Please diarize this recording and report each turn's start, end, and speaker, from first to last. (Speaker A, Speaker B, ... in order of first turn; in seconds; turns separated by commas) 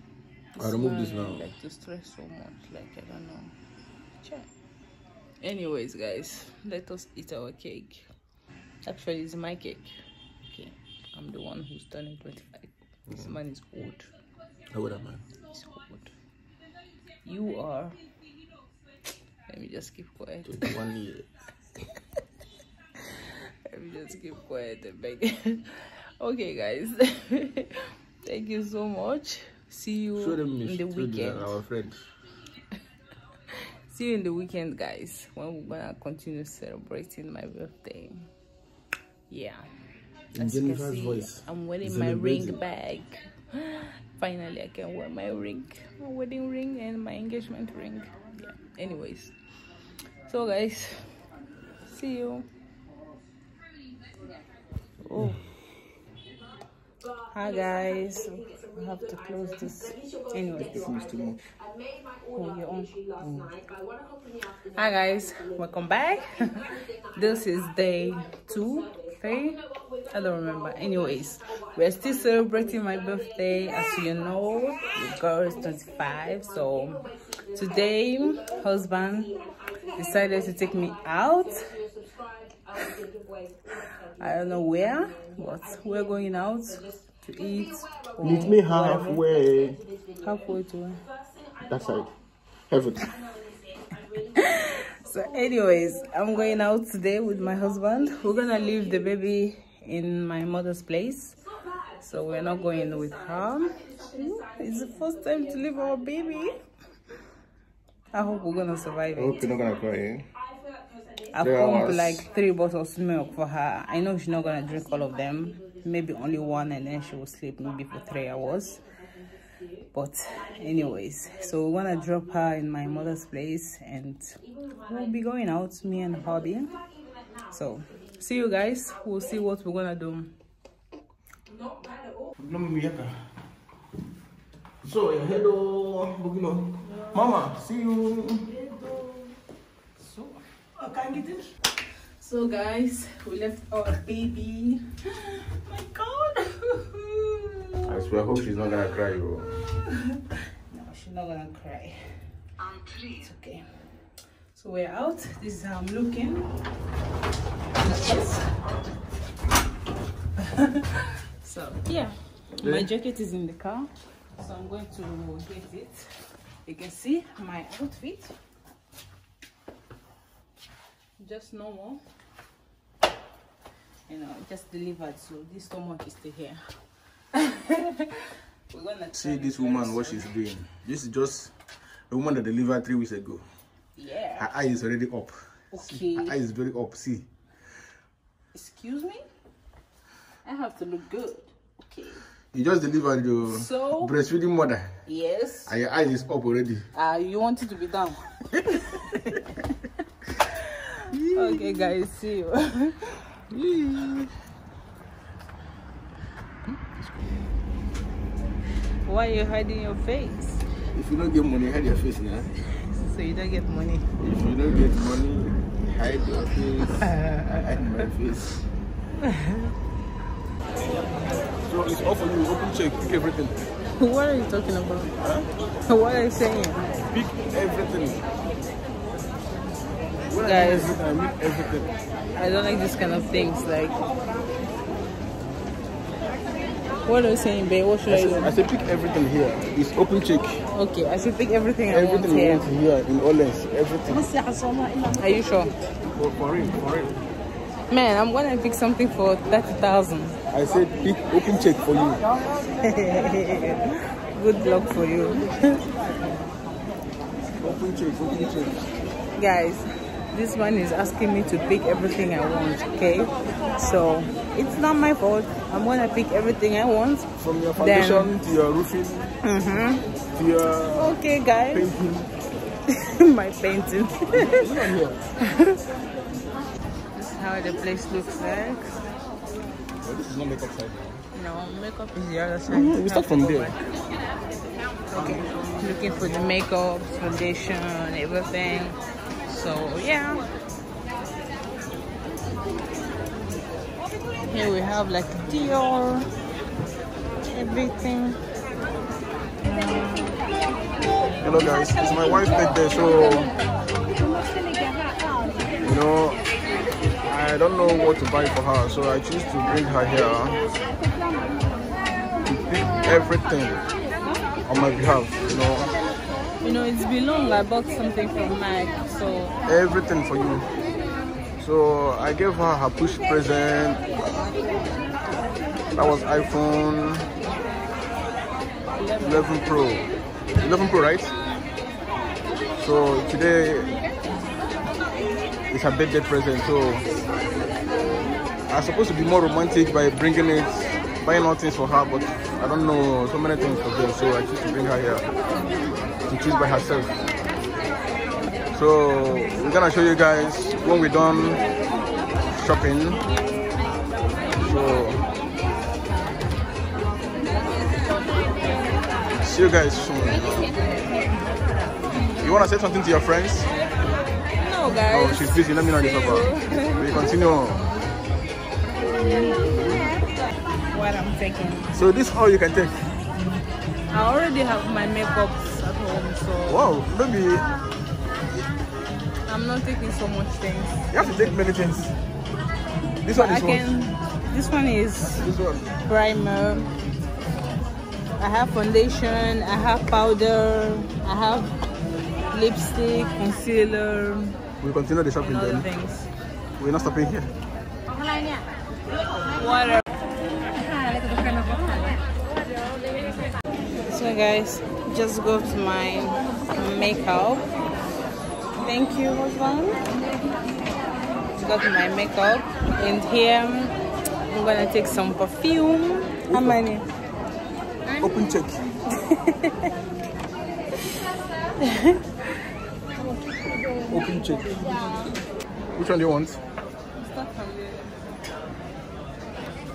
Speaker A: 0.6-3.5, Speaker B: 0.6-1.5, Speaker A: 4.2-4.5, Speaker A: 5.4-8.0, Speaker A: 8.8-14.1, Speaker B: 14.7-15.2, Speaker A: 15.5-16.1, Speaker A: 17.2-18.0, Speaker A: 19.5-20.7, Speaker B: 20.4-21.3, Speaker A: 23.0-31.6, Speaker B: 30.2-32.0, Speaker A: 33.9-38.3, Speaker A: 39.3-39.6, Speaker B: 40.3-42.6, Speaker A: 40.4-49.3, Speaker A: 50.3-51.1, Speaker A: 51.8-52.5, Speaker A: 55.0-55.5, Speaker A: 57.3-60.9, Speaker B: 60.6-61.4, Speaker A: 62.3-62.9, Speaker A: 64.7-79.3, Speaker A: 80.0-81.8, Speaker A: 84.2-89.4, Speaker B: 88.2-89.8, Speaker A: 90.2-91.0, Speaker B: 91.7-92.1, Speaker B: 92.7-93.0, Speaker A: 94.3-101.4, Speaker A: 102.0-106.5, Speaker A: 108.1-109.5, Speaker B: 109.1-110.2, Speaker A: 111.3-118.8, Speaker B: 111.4-112.2, Speaker A: 119.9-126.8, Speaker A: 127.5-130.3, Speaker B: 132.4-133.1, Speaker B: 134.8-138.6, Speaker A: 140.0-140.4, Speaker A: 142.2-147.9, Speaker B: 147.8-149.6, Speaker A: 150.1-152.1, Speaker A: 153.0-156.5, Speaker A: 157.8-158.5, Speaker A: 160.4-166.1, Speaker B: 162.6-162.9, Speaker A: 166.7-168.3, Speaker A: 171.2-172.0, Speaker A: 174.1-176.6, Speaker A: 177.3-180.3, Speaker B: 179.1-181.5, Speaker B: 182.1-183.5, Speaker A: 183.9-184.5, Speaker B: 184.4-187.3, Speaker A: 185.7-186.3, Speaker A: 188.5-189.2, Speaker A: 190.4-192.2, Speaker B: 192.5-195.0, Speaker A: 193.4-194.1, Speaker A: 195.1-195.7, Speaker B: 195.7-196.9, Speaker A: 196.9-199.4, Speaker B: 198.5-198.8, Speaker A: 200.5-203.2, Speaker B: 201.1-201.8, Speaker B: 203.5-204.3, Speaker B: 206.7-207.3, Speaker A: 209.1-210.6, Speaker B: 210.9-212.5, Speaker A: 212.8-214.2, Speaker B: 214.2-218.5, Speaker A: 217.1-217.4, Speaker A: 219.2-219.7, Speaker B: 221.7-223.7, Speaker A: 224.0-225.1, Speaker B: 225.2-225.5, Speaker A: 225.9-226.8, Speaker B: 227.1-228.2, Speaker B: 230.2-231.9, Speaker A: 230.4-231.0, Speaker A: 232.3-233.9, Speaker A: 237.0-238.5, Speaker B: 238.1-240.6, Speaker A: 240.7-242.7, Speaker B: 241.9-244.2, Speaker A: 244.1-245.9, Speaker B: 246.1-247.2, Speaker A: 247.9-250.4, Speaker B: 250.5-252.2, Speaker A: 252.7-255.8, Speaker B: 257.6-258.9, Speaker A: 259.4-268.4, Speaker B: 267.4-269.2, Speaker A: 269.4-270.0, Speaker B: 270.3-271.2, Speaker A: 270.9-271.9, Speaker B: 271.7-272.3, Speaker A: 272.9-274.7, Speaker B: 274.3-275.2, Speaker A: 275.5-275.8, Speaker A: 277.1-279.0, Speaker B: 280.0-281.2, Speaker A: 281.3-283.8, Speaker B: 282.7-283.8, Speaker A: 285.1-290.5, Speaker B: 285.1-285.8, Speaker A: 294.5-296.3, Speaker A: 297.4-298.4, Speaker A: 299.6-300.4, Speaker B: 301.4-303.5, Speaker B: 305.8-306.4, Speaker B: 307.2-310.6, Speaker B: 312.4-313.8, Speaker B: 314.6-316.0, Speaker A: 316.6-319.6, Speaker B: 319.7-320.7, Speaker B: 321.6-324.2, Speaker B: 325.9-327.3, Speaker A: 329.0-329.5, Speaker B: 329.2-330.1, Speaker B: 330.6-331.3, Speaker B: 332.8-333.9, Speaker B: 335.7-337.1, Speaker B: 338.7-345.3, Speaker B: 346.3-347.2, Speaker B: 348.7-351.6, Speaker B: 352.5-353.2, Speaker B: 354.5-355.2, Speaker B: 359.4-361.0, Speaker B: 362.4-363.7, Speaker A: 364.6-367.3, Speaker B: 365.1-367.9, Speaker A: 369.3-369.6, Speaker B: 369.7-370.1, Speaker A: 370.9-371.9, Speaker B: 371.9-373.0, Speaker A: 374.1-376.8, Speaker B: 376.7-377.7, Speaker A: 379.4-381.5, Speaker B: 381.1-382.1, Speaker B: 383.2-383.9, Speaker A: 383.3-385.5, Speaker B: 385.4-385.9, Speaker A: 386.0-386.9, Speaker A: 388.4-391.7, Speaker A: 392.5-394.6, Speaker B: 394.8-395.9, Speaker A: 395.4-396.3, Speaker B: 396.8-397.5, Speaker A: 399.5-400.0, Speaker A: 400.9-402.2, Speaker A: 404.1-407.7, Speaker A: 408.8-410.0, Speaker A: 411.5-413.9, Speaker A: 414.5-417.1, Speaker B: 416.5-416.8, Speaker B: 418.2-418.8, Speaker A: 419.1-419.9, Speaker A: 421.8-422.2, Speaker B: 424.1-424.9, Speaker B: 425.9-426.6, Speaker A: 427.1-428.1